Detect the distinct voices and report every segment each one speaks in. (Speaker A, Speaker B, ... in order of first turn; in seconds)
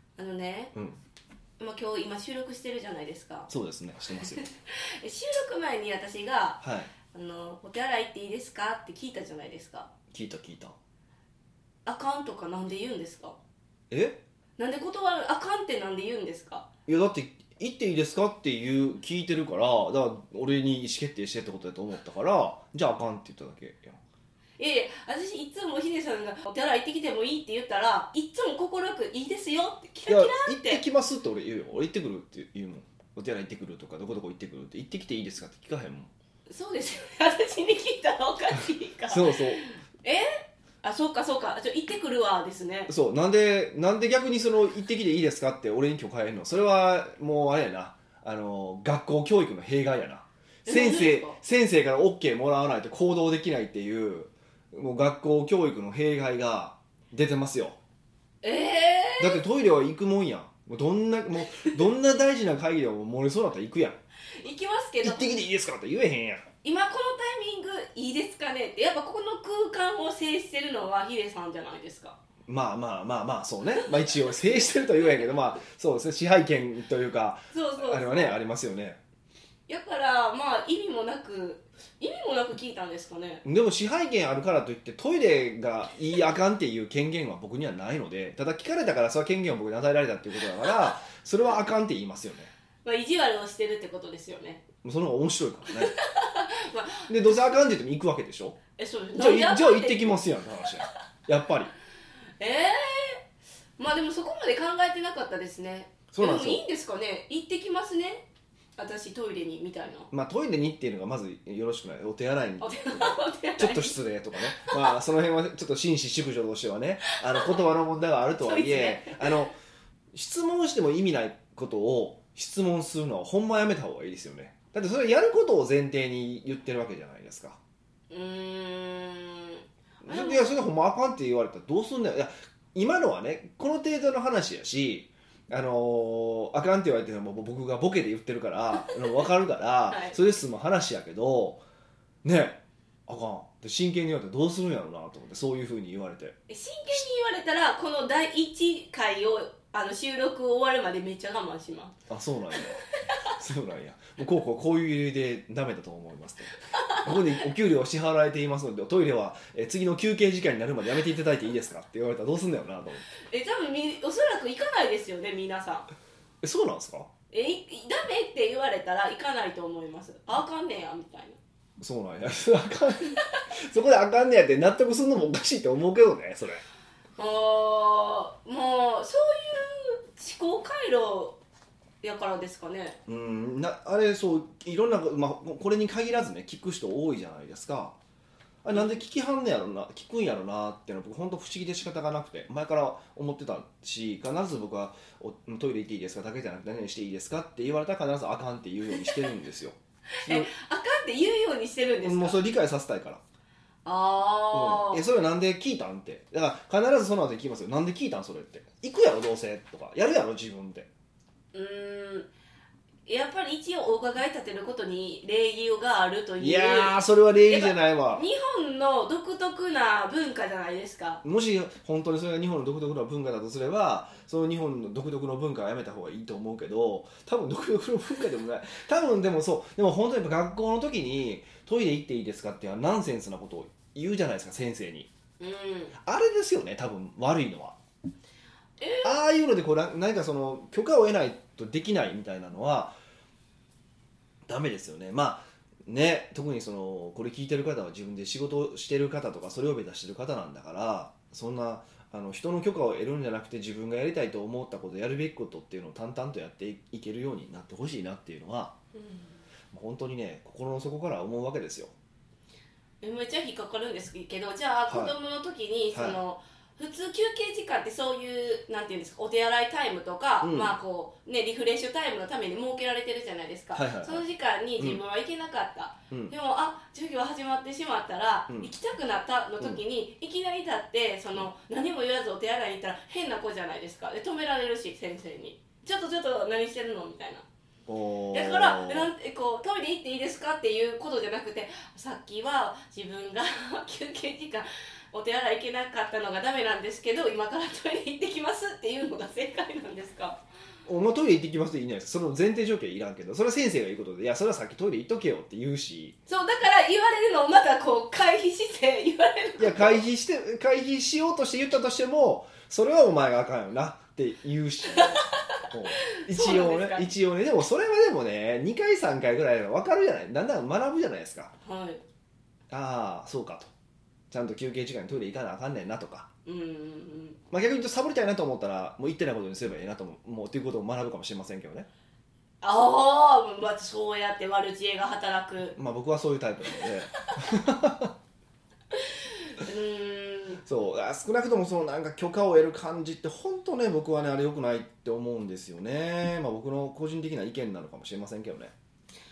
Speaker A: 0.2-0.7, 1.6-3.5, 4.2-9.9, 11.9-13.4, 14.6-16.7, 24.6-30.8, 36.5-42.9, 50.6-51.4, 58.4-59.4, 64.4-65.3, 66.6-72.2, 77.5-78.4, 79.7-83.4, 92.8-94.6, 95.8-97.3, 98.8-100.2, 102.4-103.2, 103.8-108.2, 108.8-110.1, 112.6-114.0, 114.6-115.0, 117.1-117.6, 118.4-119.3, 128.1-130.6, 139.9-140.2, 146.5-151.9, 152.6-153.2, 156.7-157.2, 163.2-165.9, 167.3-171.4, 177.2-181.4, 182.0-183.0, 200.2-202.4, 203.8-205.1, 211.5-212.3, 213.1-221.2, 235.4-235.9, 238.8-239.2, 259.0-259.3, 263.0-287.4, 288.3-300.4, 306.3-310.0, 315.0-317.1, 321.6-322.0, 326.5-327.4, 332.6-335.8, 339.1-340.6
Speaker B: 3.5-4.4, 6.6-6.9, 10.1-10.8, 13.9-14.2, 16.9-24.0, 30.1-36.1, 39.1-39.6, 42.9-57.8, 59.2-64.0, 65.0-66.5, 72.5-79.0, 83.4-92.5, 94.8-96.0, 97.1-98.6, 99.2-101.7, 106.1-106.6, 110.1-119.6, 120.1-127.6, 130.0-141.6, 142.2-146.4, 152.1-163.1, 166.4-167.1, 171.8-176.6, 183.1-188.0, 188.6-200.5, 202.0-203.2, 204.5-210.9, 216.4-218.2, 221.2-235.1, 236.0-237.8, 239.0-243.0, 244.5-258.7, 259.7-261.9, 264.9-265.1, 265.9-266.2, 270.4-270.8, 273.7-274.2, 287.9-289.1, 300.9-306.2, 309.6-321.5, 322.7-323.7, 324.3-326.3, 327.5-331.9, 335.8-338.1, 340.6-348.7